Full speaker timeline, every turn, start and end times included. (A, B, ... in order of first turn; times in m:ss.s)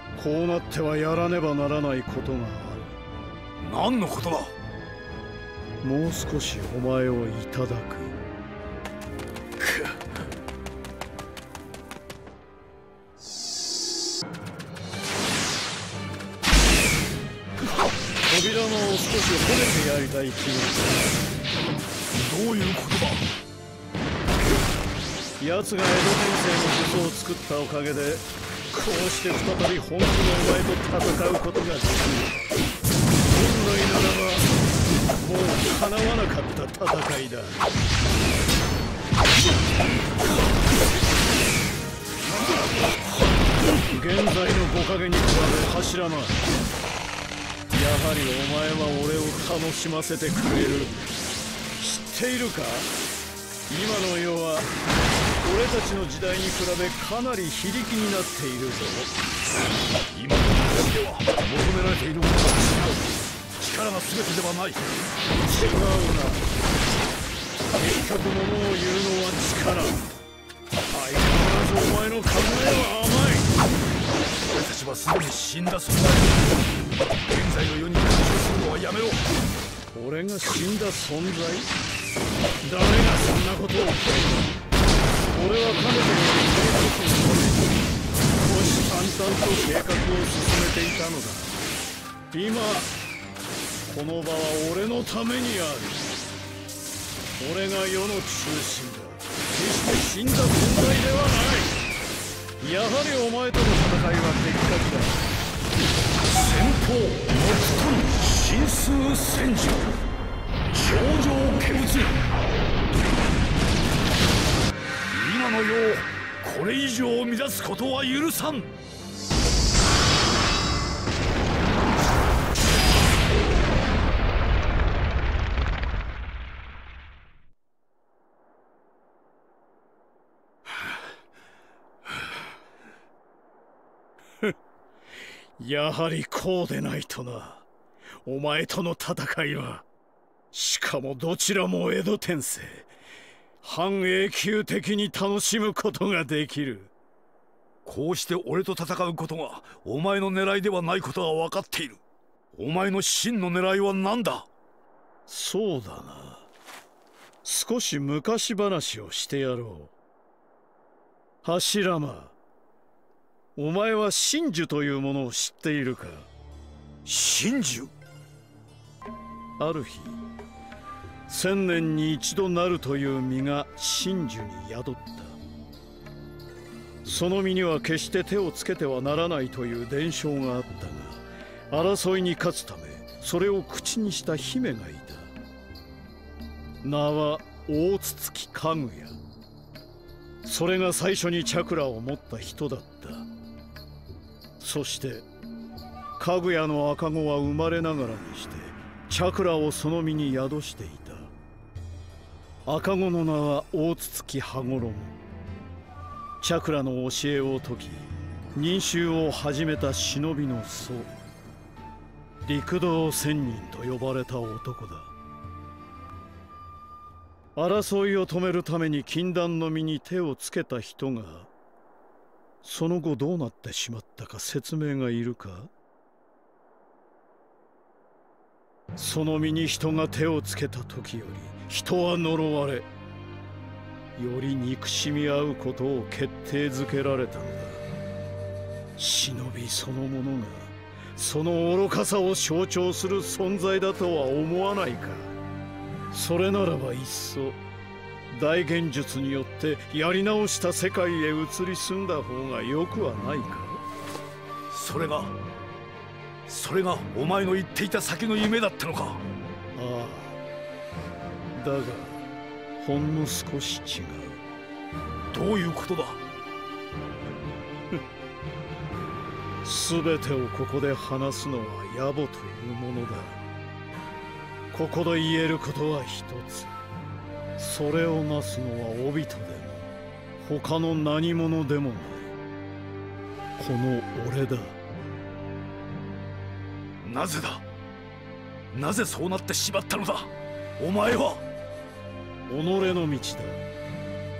0:00.2-0:02.9 A
0:03.6-0:04.5 B
0:05.8-0:08.2 A
0:18.2-0:21.1 A
0:22.1-0:23.2 B
0:25.4-0:32.3 A
0:33.3-0:34.5 A
0:35.2-0:37.6 A
0:43.9-0:46.4 A
0:47.7-0:51.0 A
0:51.8-0:52.9 A
0:53.7-0:54.7 A
0:55.4-0:59.1 A
1:00.1-1:03.0 B
1:03.6-1:05.0 B
1:05.4-1:06.4 A
1:07.7-1:10.0 A
1:10.9-1:13.5 A
1:14.5-1:16.6 B
1:17.2-1:19.2 B
1:19.9-1:21.7 A
1:22.6-1:24.6 A
1:25.3-1:31.6 A
1:32.3-1:32.9 A
1:33.8-1:36.0 A
1:37.4-1:41.8 A
1:42.6-1:45.2 A
1:46.2-1:50.0 B
1:50.7-1:52.2 B
1:55.1-1:58.7 B
2:15.6-2:17.7 A
2:18.2-2:19.8 A
2:20.5-2:22.9 A
2:23.6-2:26.9 A
2:27.8-2:32.0 B
2:32.5-2:34.5 B
2:35.3-2:36.5 A
2:37.4-2:39.9 A
2:41.4-2:42.3 A
2:43.6-2:46.3 A
2:47.0-2:47.9 B
2:49.6-2:50.2 A
2:51.3-2:55.4 A
2:57.0-3:05.3 A
3:06.8-3:09.2 A
3:10.4-3:13.3 A
3:14.6-3:15.2 A
3:16.2-3:21.3 A
3:22.6-3:25.2 A
3:26.4-3:31.1 A
3:32.4-3:35.1 A
3:37.5-3:41.5 A
3:42.6-3:45.7 A
3:48.9-3:52.9 A
3:54.2-3:57.8 A
3:59.0-4:05.3 A
4:06.1-4:07.6 A
4:08.3-4:13.8 A
4:14.7-4:15.3 B
4:16.4-4:19.2 B
4:19.8-4:20.4 A
4:21.5-4:22.2 A
4:22.8-4:24.4 A
4:25.3-4:26.2 B
4:29.6-4:33.4 A
4:34.7-4:36.7 A
4:37.6-4:42.3 A
4:43.6-4:44.8 A
4:47.0-4:47.6 B
4:48.7-4:51.4 B
4:52.5-4:53.6 A